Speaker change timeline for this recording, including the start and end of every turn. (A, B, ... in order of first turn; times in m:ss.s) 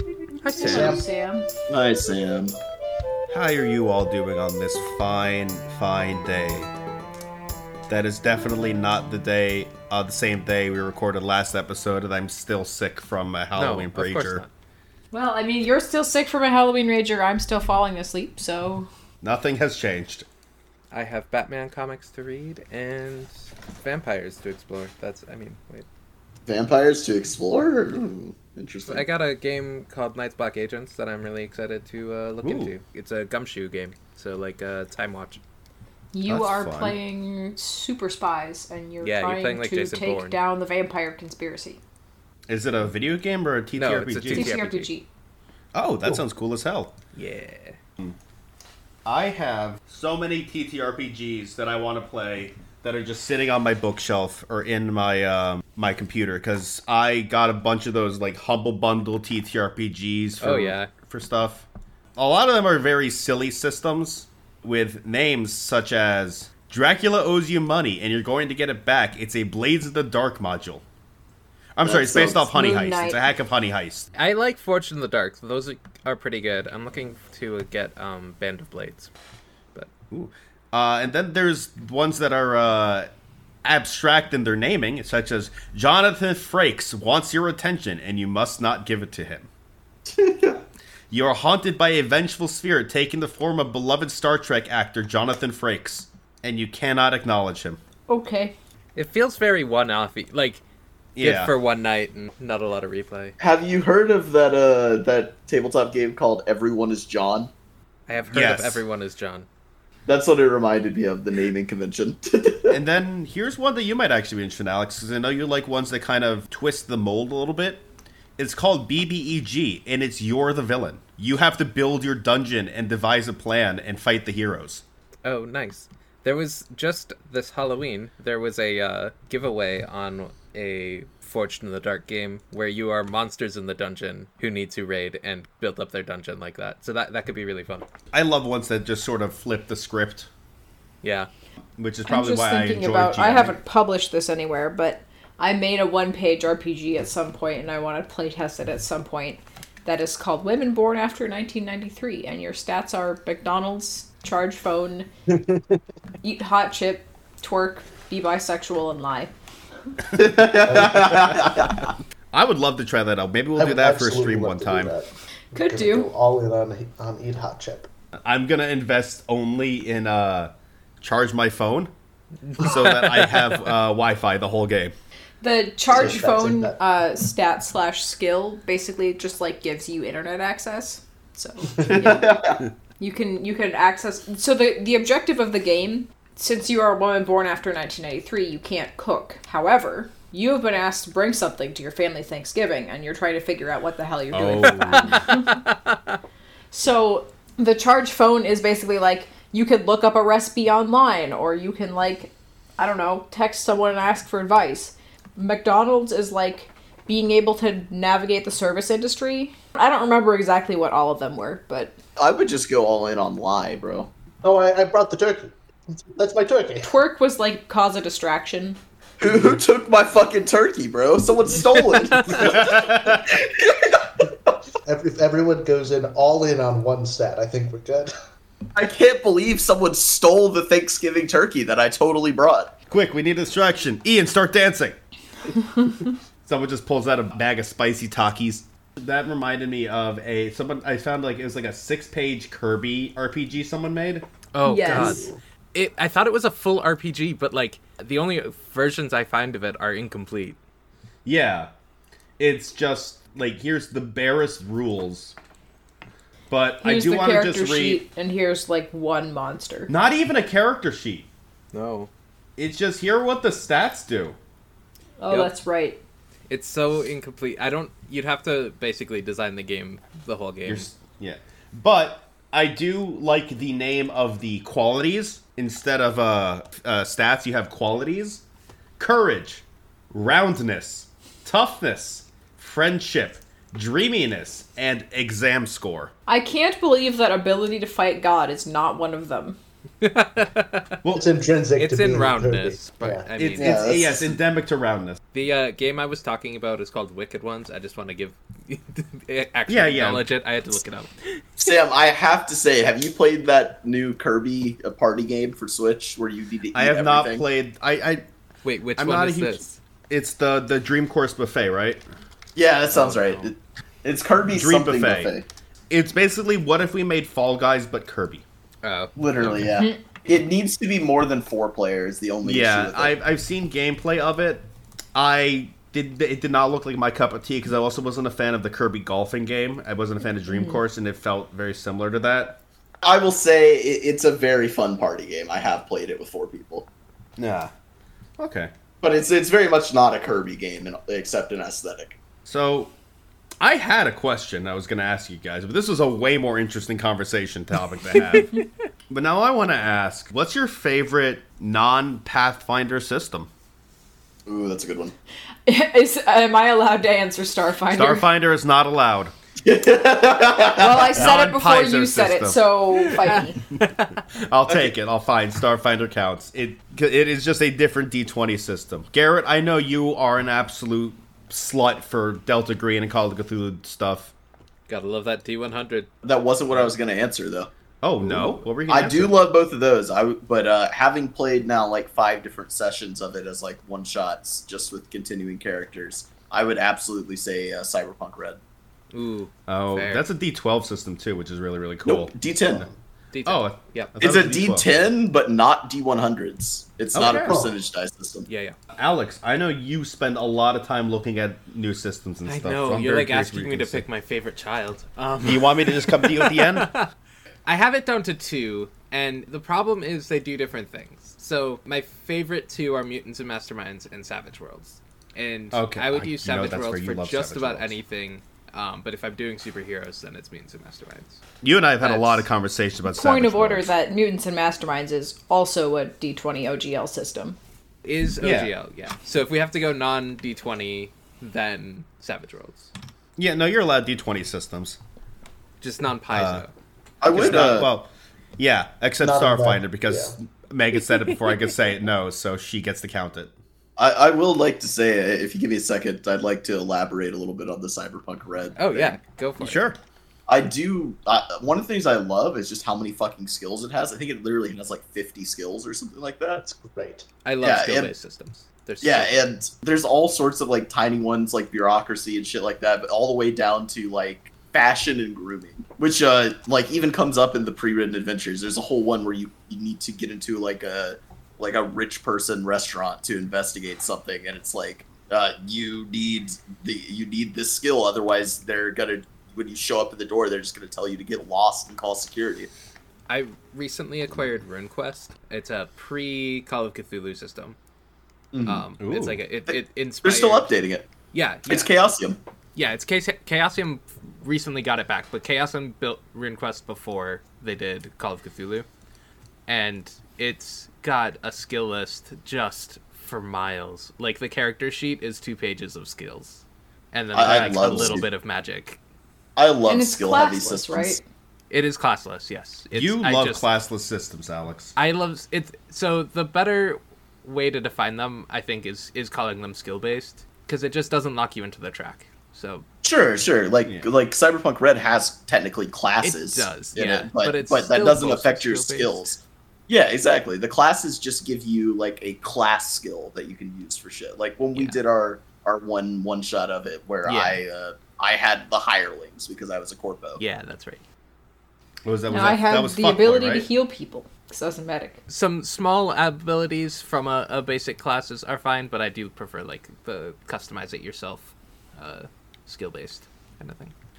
0:00.4-0:01.5 A
0:00.5-0:01.0 B
0:00.6-0:01.0 C
0:01.7-0:02.6 D
0:03.3-0:06.7 B
0:07.9-0:14.4 B
0:13.6-0:14.5 E
0:15.1-0:18.9 A
0:19.2-0:20.3 B
0:20.9-0:25.9 E
0:26.5-0:29.1 D
0:28.9-0:35.4 E
0:32.4-0:32.7 B
0:36.1-0:41.8 A
0:36.3-0:37.0 B
0:39.0-0:40.4 E
0:42.5-0:44.6 B
0:43.8-0:44.9 E
0:44.3-0:45.1 A
0:45.7-0:46.9 B
0:47.1-0:47.8 E
0:49.0-1:10.8 B
1:00.4-1:00.9 E
1:11.8-1:14.1 B
1:11.8-1:12.4 D
1:12.4-1:13.2 A
1:14.2-1:19.1 E
1:20.1-1:23.1 B
1:23.6-1:29.5 B
1:30.1-1:30.6 D
1:31.1-1:37.8 B
1:38.1-1:38.6 A
1:39.0-1:40.6 E
1:41.2-1:41.5 B
1:41.2-1:43.4 E
1:43.4-1:47.5 D
1:48.1-1:49.5 E
1:48.3-1:48.8 B
1:50.1-1:52.8 D
1:52.7-1:57.8 B
1:58.4-2:04.8 B
2:05.2-2:17.9 E
2:18.1-2:20.3 B
2:21.0-2:21.3 E
2:21.8-2:23.6 B
2:22.1-2:35.1 A
2:35.3-2:35.8 C
2:36.2-2:39.4 A
2:40.2-2:41.9 D
2:40.7-2:41.1 C
2:42.3-2:44.9 B
2:43.6-2:47.9 C
2:45.5-2:46.1 A
2:48.2-2:51.9 B
2:52.4-2:53.8 E
2:52.6-2:54.9 B
2:55.4-3:02.4 A
2:55.9-2:56.8 C
3:02.0-3:02.6 D
3:03.0-3:15.6 A
3:14.3-3:15.3 B
3:14.6-3:16.2 E
3:16.7-3:32.0 A
3:32.2-3:34.1 D
3:34.4-3:35.5 C
3:36.1-3:36.9 C
3:36.8-3:38.8 A
3:39.2-3:44.5 D
3:42.4-3:43.2 B
3:44.8-3:48.1 C
3:48.8-3:52.7 D
3:52.9-3:55.0 B
3:56.5-4:04.3 B
4:04.5-4:10.6 E
4:04.6-4:05.3 A
4:04.8-4:05.4 C
4:11.2-4:11.7 B
4:12.4-4:15.4 B
4:16.5-4:18.0 B
4:16.8-4:19.9 A
4:19.9-4:21.3 B
4:21.7-4:22.1 E
4:22.6-4:24.4 B
4:25.2-4:26.0 A
4:26.5-4:30.9 E
4:30.6-4:38.4 B
4:39.0-4:46.1 B
4:46.3-4:49.6 A
4:50.0-4:51.0 E
4:51.1-4:53.3 C
4:51.8-4:54.0 E
4:53.4-4:55.2 B
4:53.6-4:54.4 D
4:55.3-5:01.1 E
4:59.7-5:00.2 B
5:01.6-5:07.4 D
5:06.7-5:08.2 B
5:08.6-5:09.8 E
5:09.0-5:12.0 B
5:12.6-5:15.5 D
5:12.9-5:13.5 E
5:14.5-5:15.3 B
5:15.9-5:18.4 B
5:18.8-5:19.7 E
5:19.2-5:23.2 D
5:22.4-5:32.6 B
5:30.5-5:30.8 A
5:33.0-5:36.9 D
5:37.4-5:37.7 B
5:38.4-5:38.7 B
5:39.0-5:42.2 D
5:42.4-5:42.9 B
5:43.6-5:53.5 B
5:54.5-5:55.2 D
5:55.7-5:58.3 A
5:57.9-5:59.3 B
5:59.6-6:01.2 D
6:00.8-6:03.6 A
6:01.1-6:02.6 B
6:03.2-6:04.2 E
6:04.4-6:14.3 B
6:14.9-6:16.1 E
6:16.2-6:17.7 D
6:18.0-6:19.4 B
6:18.3-6:28.6 D
6:29.1-6:30.2 E
6:29.7-6:32.9 B
6:32.0-6:32.9 D
6:33.3-6:34.2 E
6:33.4-6:34.9 B
6:34.2-6:38.5 D
6:37.1-6:37.6 B
6:37.2-6:37.8 C
6:38.5-6:38.8 E
6:39.0-6:44.0 B
6:42.5-6:47.1 E
6:45.4-6:46.9 B
6:47.7-7:01.4 E
6:55.7-6:58.0 B
7:01.6-7:03.9 B
7:02.0-7:02.5 E
7:03.0-7:07.6 A
7:08.0-7:12.9 E
7:08.4-7:08.7 B
7:13.4-7:15.0 B
7:15.8-7:16.7 E
7:16.3-7:16.6 B
7:17.2-7:17.9 D
7:17.2-7:23.5 B
7:17.3-7:17.7 E
7:19.2-7:20.4 C
7:21.2-7:21.6 E
7:24.0-7:29.2 D
7:28.8-7:29.8 E
7:29.6-7:30.0 B
7:30.5-7:36.6 D
7:36.6-7:37.3 C
7:37.4-7:39.4 E
7:37.6-7:38.1 D
7:39.0-8:02.7 D
8:03.3-8:07.8 E
8:08.5-8:08.8 D
8:08.6-8:10.7 E
8:09.0-8:09.4 B
8:09.7-8:11.1 D
8:11.3-8:11.9 E
8:11.7-8:12.4 D
8:12.8-8:18.9 E
8:19.7-8:29.0 E
8:27.3-8:28.3 D
8:27.4-8:28.2 B
8:29.6-8:31.2 D
8:29.9-8:31.2 A
8:31.7-8:33.6 E
8:32.9-8:35.0 B
8:35.0-8:42.8 E
8:43.0-9:00.4 D
8:46.2-8:49.3 E
8:57.2-8:57.6 E
9:00.4-9:01.0 E
9:02.0-9:03.7 B
9:02.3-9:05.2 A
9:05.3-9:13.9 E